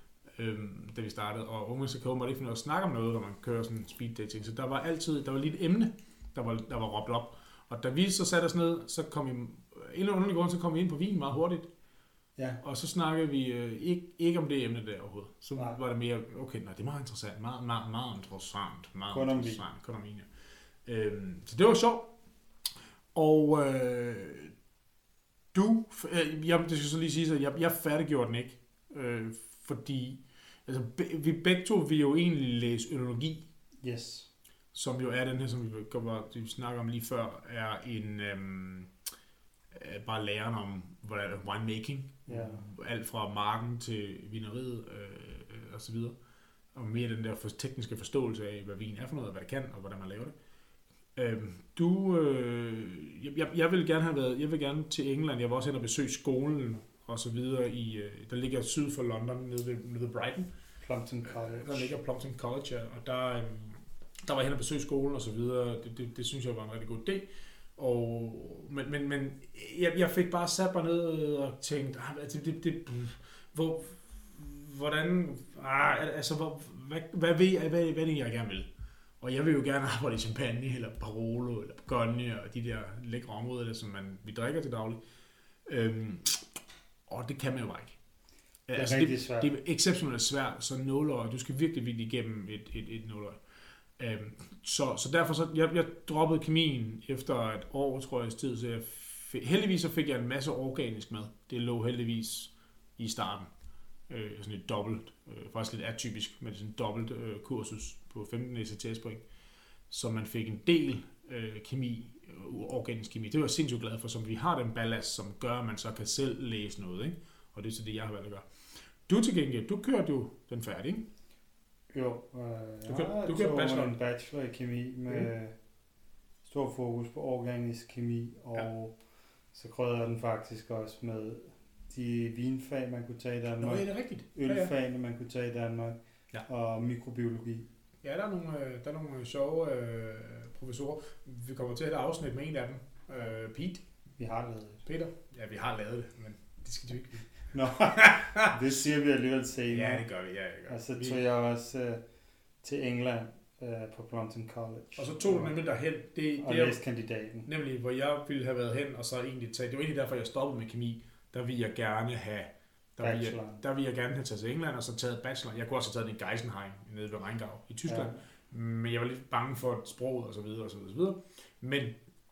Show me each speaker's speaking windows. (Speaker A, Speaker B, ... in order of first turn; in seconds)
Speaker A: 0.3-11.7, 12.6-20.3, 20.9-22.1, 23.1-24.5, 25.5-33.4, 34.7-38.9, 39.7-46.2, 46.7-50.4, 51.2-60.5, 61.2-78.7, 79.2-85.0, 85.7-86.4, 87.1-88.0, 88.7-93.4, 94.0-103.5, 104.1-109.2, 109.9-118.5, 119.1-121.0, 122.9-124.0, 133.6-134.7, 138.0-143.8, 144.9-148.6, 149.7-151.2, 155.0-156.8, 157.5-172.0
Speaker B: 19.1-19.6, 33.8-34.3, 42.3-42.6, 60.8-62.0, 88.7-89.5, 121.9-125.5, 126.5-129.0, 129.5-137.7, 144.2-144.8, 147.5-150.1, 150.7-152.0, 152.6-155.5, 156.4-157.5, 163.0-163.6, 167.9-168.2